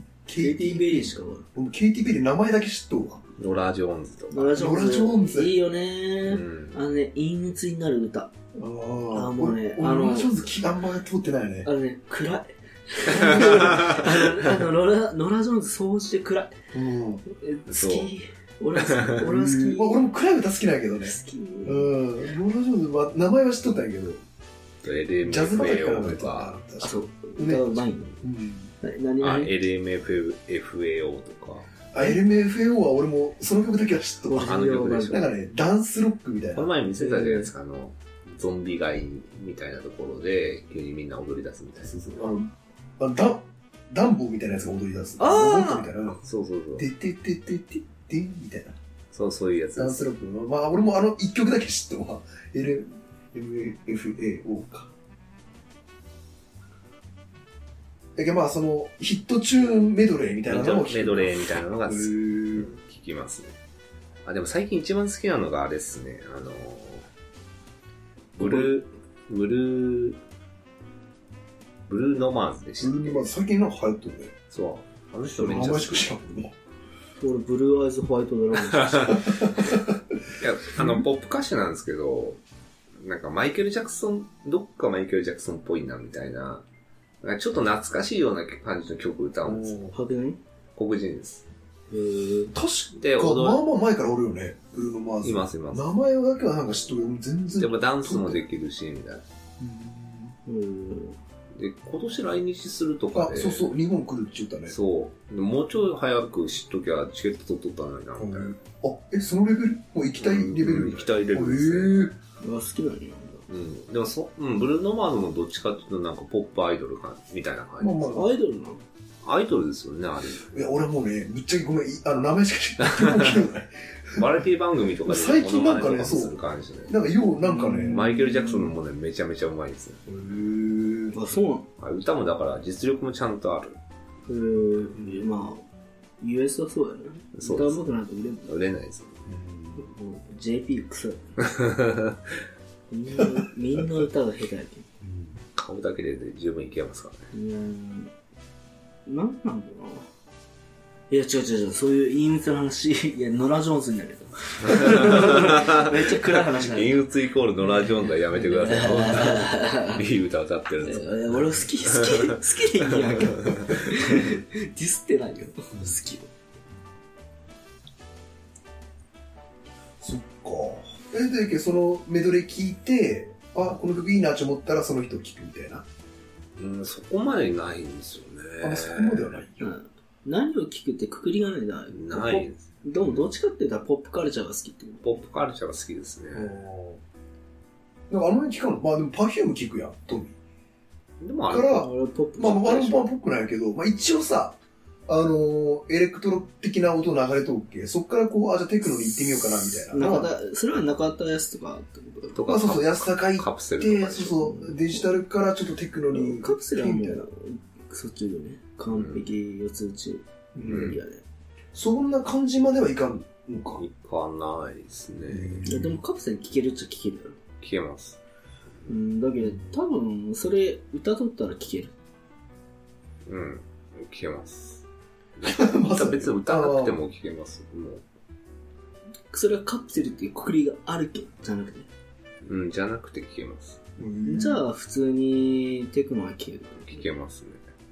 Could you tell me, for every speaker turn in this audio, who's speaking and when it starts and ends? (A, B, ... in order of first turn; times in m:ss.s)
0:00.2-0:03.2 A
0:00.4-0:01.4 B
0:03.4-0:04.6 C
0:04.3-0:08.3 B
0:04.5-0:05.6 A
0:06.2-0:06.8 C
0:08.5-0:11.7 A
0:09.1-0:10.4 B
0:11.6-0:16.6 B
0:13.2-0:13.9 A
0:13.7-0:14.0 C
0:16.7-0:17.2 A
0:17.3-0:20.0 B
0:17.7-0:18.1 C
0:18.8-0:19.2 C
0:19.2-0:24.2 A
0:21.0-0:21.9 B
0:24.8-0:26.6 C
0:25.2-0:28.7 A
0:26.8-0:28.2 B
0:28.8-0:29.5 B
0:29.2-0:31.7 C
0:31.9-0:34.5 A
0:34.3-0:35.2 B
0:34.4-0:35.2 C
0:35.1-0:36.7 A
0:36.5-0:42.0 C
0:37.0-0:37.5 B
0:41.8-0:46.2 A
0:45.2-0:45.9 B
0:46.2-0:46.9 C
0:46.8-0:48.8 A
0:49.1-0:50.0 C
0:49.8-0:54.9 A
0:58.2-1:02.7 A
1:00.5-1:03.6 C
1:04.2-1:07.1 C
1:08.4-1:10.2 C
1:08.4-1:08.7 B
1:11.9-1:13.3 C
1:12.8-1:14.4 A
1:14.5-1:16.2 C
1:15.3-1:16.5 A
1:17.2-1:19.5 B
1:18.7-1:19.2 C
1:19.2-1:19.9 A
1:20.4-1:22.4 C
1:20.8-1:21.0 A
1:23.0-1:26.6 C
1:27.2-1:29.8 C
1:29.4-1:29.9 A
1:29.9-1:30.4 B
1:30.8-1:31.4 C
1:31.9-1:32.6 B
1:32.5-1:38.4 A
1:33.0-1:33.6 C
1:35.2-1:35.9 C
1:37.6-1:39.2 C
1:39.6-1:40.4 A
1:40.4-1:41.2 B
1:41.5-1:43.7 C
1:43.1-1:44.8 A
1:44.7-1:48.6 C
1:48.2-1:52.1 A
1:50.2-1:52.1 C
1:52.4-1:53.4 B
1:53.5-1:58.1 C
1:57.8-1:58.3 A
1:58.1-1:58.8 B
1:59.2-2:00.5 C
2:00.5-2:04.3 A
2:02.8-2:03.4 C
2:04.1-2:07.0 C
2:05.1-2:08.0 A
2:07.4-2:08.7 B
2:07.8-2:10.0 C
2:10.1-2:11.2 A
2:11.1-2:11.7 B
2:11.8-2:13.8 C
2:14.3-2:15.6 B
2:16.2-2:18.5 B
2:17.4-2:17.9 C
2:18.4-2:19.3 C
2:19.3-2:19.9 A
2:19.8-2:21.4 B
2:21.4-2:22.3 C
2:22.9-2:24.9 B
2:25.0-2:25.4 A
2:25.6-2:27.3 C
2:27.3-2:28.1 B
2:29.1-2:30.1 B
2:31.1-2:37.0 B
2:34.7-2:41.1 C
2:38.4-2:40.0 B
2:40.8-2:46.3 B
2:41.8-2:42.4 C
2:43.0-2:43.8 C
2:50.0-2:55.8 A
2:56.6-2:59.3 C
2:58.6-2:59.7 A
2:59.6-3:05.1 B
3:01.9-3:02.7 C
3:05.0-3:06.5 C
3:06.3-3:07.0 A
3:08.1-3:10.4 A
3:11.2-3:11.9 C
3:11.5-3:14.6 A
3:11.7-3:13.0 B
3:15.1-3:20.3 A
3:19.9-3:22.4 B
3:22.4-3:24.5 C
3:22.5-3:27.2 A
3:24.4-3:25.0 B
3:26.1-3:31.2 B
3:28.9-3:29.3 C
3:30.6-3:31.0 A
3:30.7-3:31.0 C
3:31.7-3:33.8 A
3:33.7-3:35.6 C
3:35.3-3:36.0 A
3:35.6-3:37.4 B
3:37.6-3:38.2 C
3:38.9-3:41.9 B
3:43.2-3:44.8 C
3:45.4-3:48.0 C
3:45.4-3:47.0 A
3:49.3-3:51.9 B
3:52.4-3:53.8 C
3:54.0-3:54.6 A
3:54.2-3:57.0 B
3:56.9-3:57.6 C